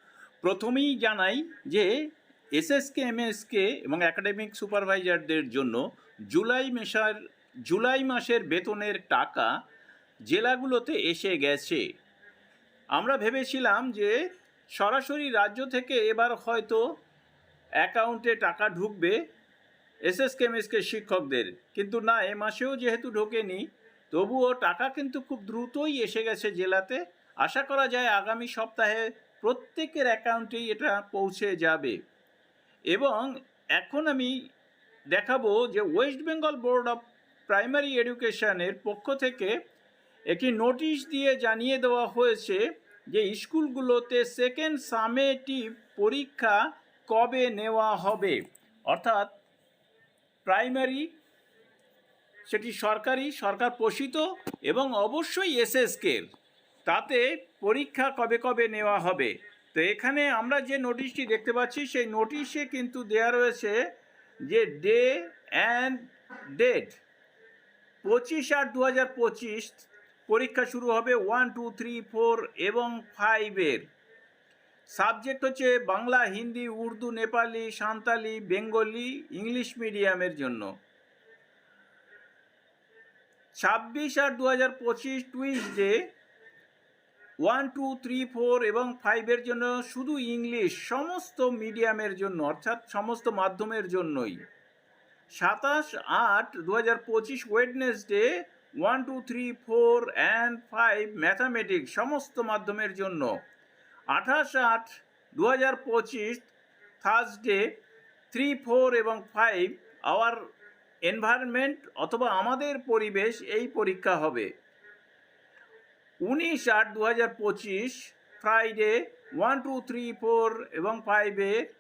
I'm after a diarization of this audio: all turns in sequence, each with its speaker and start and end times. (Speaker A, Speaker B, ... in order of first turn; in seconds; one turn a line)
Speaker A: 0.4-2.0
Speaker A: 2.5-9.5
Speaker A: 10.3-11.8
Speaker A: 12.9-14.2
Speaker A: 14.8-16.8
Speaker A: 17.8-19.2
Speaker A: 20.1-32.0
Speaker A: 32.9-34.3
Speaker A: 35.1-39.5
Speaker A: 40.3-49.3
Speaker A: 50.5-51.1
Speaker A: 52.5-56.3
Speaker A: 56.9-63.8
Speaker A: 64.5-67.0
Speaker A: 68.0-73.9
Speaker A: 74.9-80.7
Speaker A: 83.6-86.0
Speaker A: 87.4-94.4
Speaker A: 95.4-98.3
Speaker A: 98.8-103.3
Speaker A: 104.1-106.5
Speaker A: 107.0-107.7
Speaker A: 108.3-110.4
Speaker A: 111.1-114.5
Speaker A: 116.3-121.6